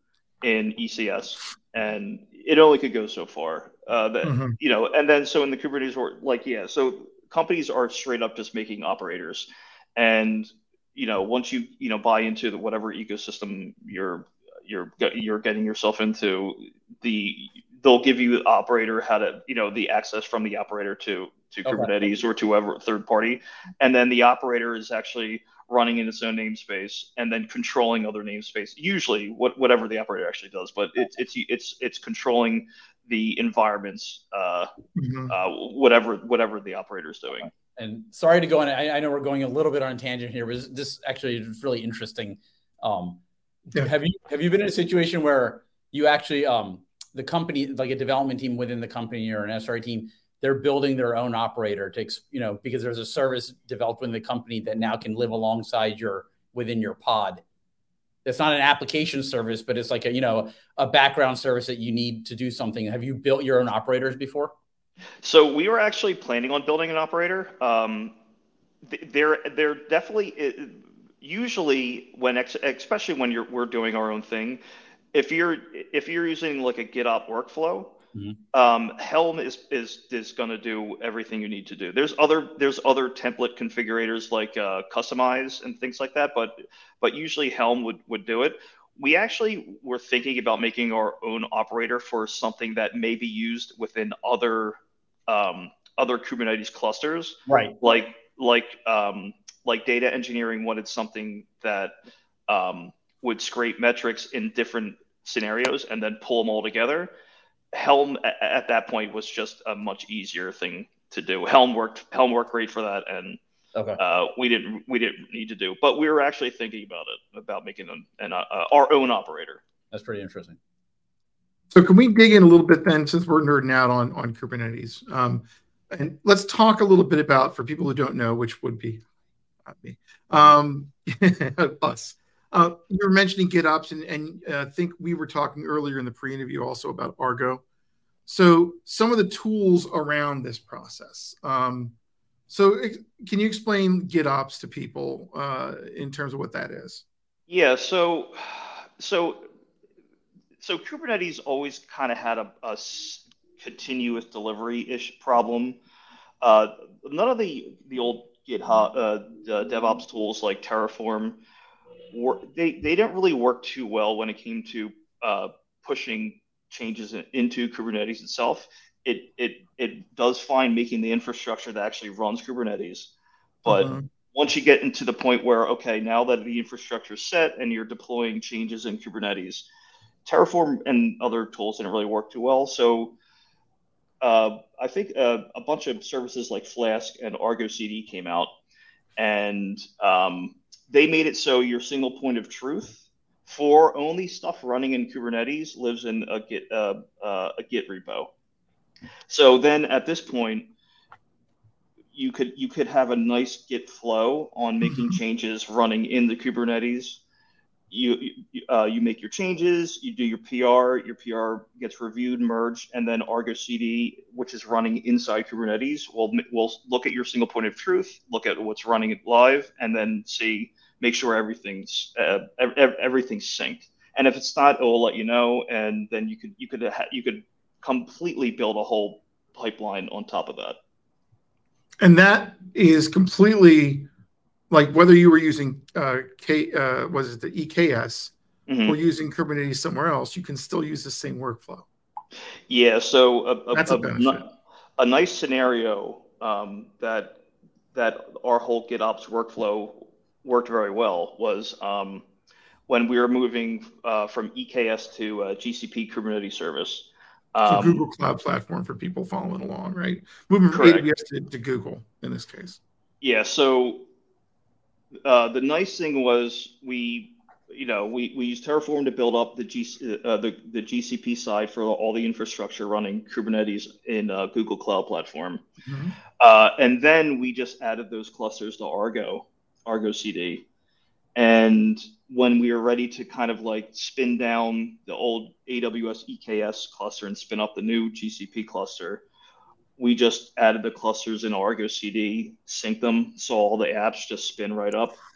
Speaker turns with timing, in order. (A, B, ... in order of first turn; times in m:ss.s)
0:00.4-0:34.7 A
0:04.2-0:04.6 B
0:21.6-0:21.9 C
0:35.0-0:35.3 B
0:35.3-0:37.5 A
0:37.7-0:43.2 C
0:43.8-0:57.4 C
0:58.2-1:04.5 C
1:05.2-1:08.1 A
1:08.8-1:14.6 A
1:15.1-1:17.9 A
1:18.5-1:41.9 A
1:37.5-1:37.8 C
1:42.5-1:47.1 A
1:47.7-1:53.4 A
1:53.8-1:54.0 C
1:54.0-1:59.6 A
1:59.9-2:00.6 C
2:01.7-2:09.0 B
2:09.6-2:17.6 B
2:18.3-2:21.9 B
2:22.5-2:27.0 B
2:27.5-2:29.4 A
2:30.6-2:35.8 A
2:36.4-2:41.4 A
2:42.1-2:53.1 A
2:53.6-2:59.6 A
2:53.7-2:54.1 B
3:00.2-3:03.1 A
3:04.2-3:08.5 A
3:09.2-3:18.3 A
3:19.3-3:20.7 A
3:22.1-3:27.2 A
3:24.8-3:25.2 B
3:27.9-3:50.8 A
3:52.0-3:54.1 B
3:54.7-3:58.3 B
3:58.7-3:59.0 A
3:58.9-4:01.9 B
4:02.7-4:04.4 A
4:03.7-4:04.4 B
4:05.0-4:07.4 A
4:07.9-4:12.2 A
4:12.9-4:18.0 A
4:17.7-4:22.8 B
4:20.7-4:21.0 A
4:23.2-4:24.0 A
4:25.2-4:35.6 A
4:35.8-4:36.2 B
4:36.4-4:40.6 A
4:41.4-4:49.2 A
4:50.0-4:55.2 A